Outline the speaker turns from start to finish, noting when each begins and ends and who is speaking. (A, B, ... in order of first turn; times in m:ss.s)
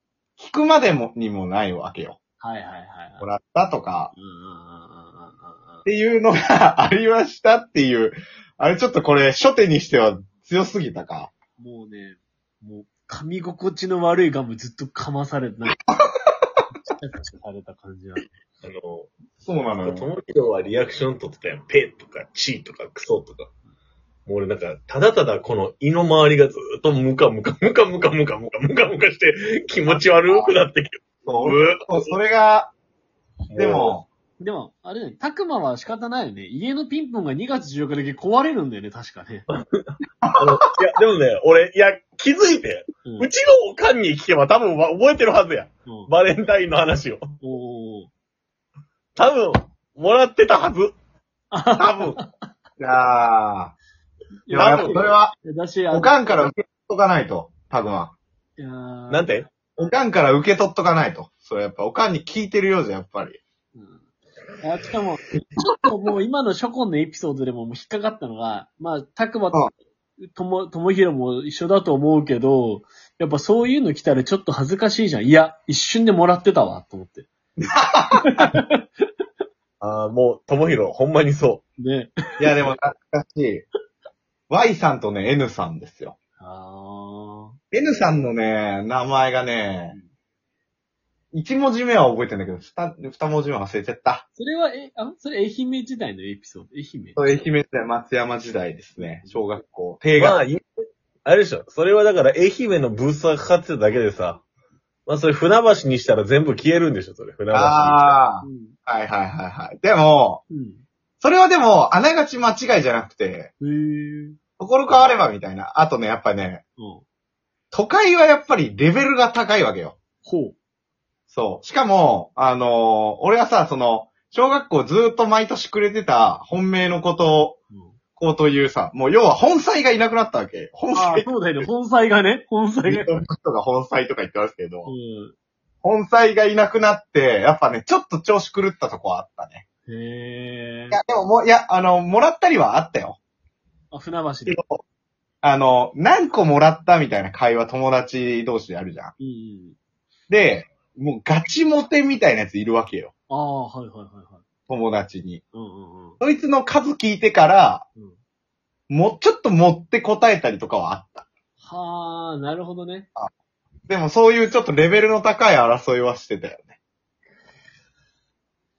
0:00.4-0:02.2 A
0:02.4-0:03.3 B
0:03.2-0:04.1 A
0:04.1-0:05.8 B
0:05.8-0:11.3 A
0:11.6-0:15.8 B
0:15.7-0:16.0 A
0:16.8-0:18.3 B
0:18.6-0:19.1 C
0:19.4-0:20.1 A
0:19.8-0:23.5 C
0:24.2-0:32.1 C
0:31.2-0:32.7 A
0:33.5-0:34.0 C
0:33.6-0:34.0 A
0:34.4-0:39.5 B
0:40.2-0:40.6 A
0:40.4-0:47.3 C
0:43.0-0:43.3 B
0:47.4-0:48.1 B
0:49.2-0:51.0 C
0:51.5-0:52.3 B
0:51.7-0:52.2 C
0:52.8-0:53.7 A
0:54.4-0:56.5 B
0:54.5-0:55.4 A
0:55.9-0:58.1 A
0:58.6-0:59.3 B
0:59.1-0:59.5 C
0:59.8-1:03.4 A
1:03.7-1:04.0 B
1:04.6-1:05.2 B
1:05.8-1:17.3 B
1:17.6-1:18.4 A
1:18.3-1:18.8 B
1:19.8-1:21.6 C
1:21.8-1:22.7 B
1:22.4-1:23.6 A
1:24.5-1:26.2 A
1:26.4-1:27.6 B
1:27.7-1:30.0 A
1:31.3-1:34.2 A
1:34.4-1:37.5 B
1:37.2-1:40.4 A
1:39.0-1:39.4 B
1:40.2-1:40.6 C
1:41.2-1:44.4 C
1:45.1-1:48.2 C
1:47.5-1:50.4 A
1:48.4-1:48.7 B
1:50.5-1:50.8 B
1:51.2-1:53.5 A
1:53.6-1:54.4 B
1:54.6-1:56.6 A
1:56.8-1:57.0 B
1:57.7-2:00.0 A
2:00.2-2:00.6 B
2:01.3-2:07.6 A
2:07.7-2:08.0 B
2:08.2-2:11.6 A
2:10.9-2:13.2 B
2:12.8-2:14.9 A
2:14.8-2:15.3 B
2:15.8-2:19.6 A
2:19.9-2:21.0 B
2:20.9-2:23.2 A
2:23.9-2:24.6 B
2:24.4-2:24.8 A
2:25.4-2:29.1 A
2:29.2-2:29.8 B
2:30.3-2:33.1 A
2:33.3-2:34.4 B
2:34.7-2:35.4 A
2:35.5-2:36.2 B
2:36.2-2:37.8 A
2:38.9-2:41.2 A
2:41.6-2:43.1 B
2:43.9-2:46.7 A